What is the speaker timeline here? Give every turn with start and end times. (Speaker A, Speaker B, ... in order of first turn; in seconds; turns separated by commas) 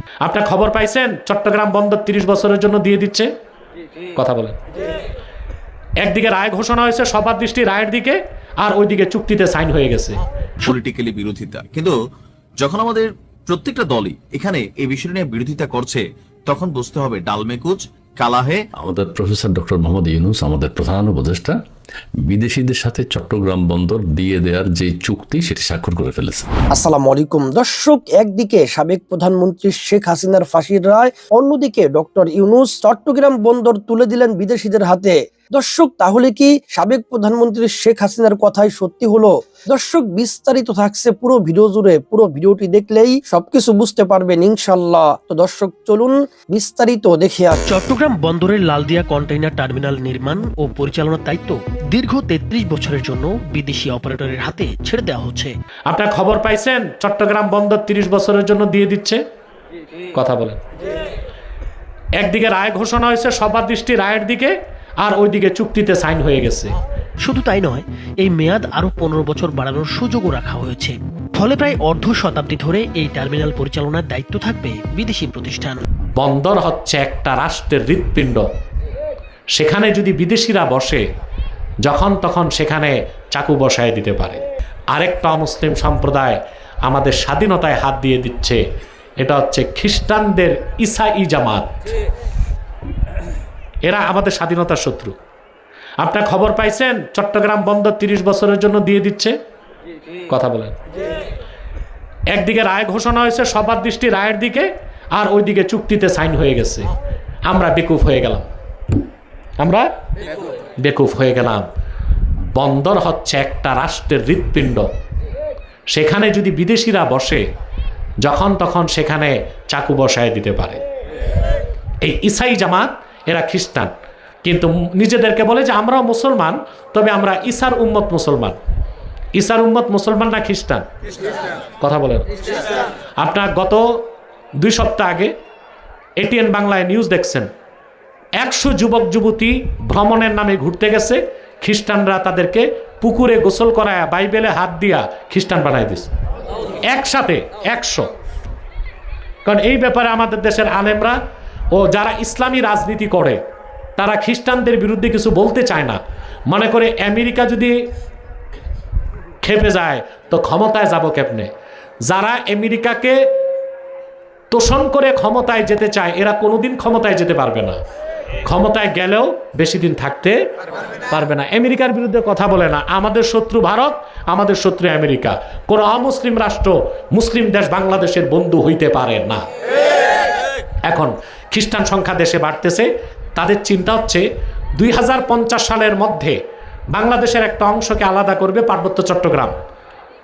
Speaker A: 0.2-3.3, Speaker A: 4.2-4.6, Speaker A: 6.0-10.2, Speaker B: 10.6-12.0, Speaker B: 12.6-18.6, Speaker C: 18.8-21.6, Speaker C: 22.2-26.5, Speaker D: 26.7-47.6, Speaker E: 47.7-55.5, Speaker A: 55.9-59.2, Speaker A: 60.1-60.6, Speaker A: 62.2-66.7, Speaker E: 67.2-75.8, Speaker A: 76.2-78.5, Speaker A: 79.5-81.0, Speaker A: 81.8-84.4, Speaker A: 84.9-88.6, Speaker A: 89.2-91.7, Speaker A: 93.8-95.1, Speaker A: 96.0-99.3, Speaker A: 100.3-100.8, Speaker A: 102.3-106.9, Speaker A: 107.5-108.5, Speaker A: 109.6-109.9, Speaker A: 110.8-111.6, Speaker A: 112.5-114.9, Speaker A: 115.9-117.4, Speaker A: 118.2-120.8, Speaker A: 122.0-123.9, Speaker A: 124.4-128.6, Speaker A: 129.3-130.8, Speaker A: 131.8-132.3, Speaker A: 133.2-133.8, Speaker A: 134.6-135.3, Speaker A: 136.2-137.5, Speaker A: 138.4-146.1, Speaker A: 146.8-148.1, Speaker A: 149.4-151.2, Speaker A: 151.7-153.4, Speaker A: 154.0-157.7, Speaker A: 159.4-161.5, Speaker A: 162.0-163.2, Speaker A: 164.5-167.8, Speaker A: 168.4-170.4, Speaker A: 171.1-179.4, Speaker A: 180.9-184.2, Speaker A: 184.8-186.3, Speaker A: 186.9-189.5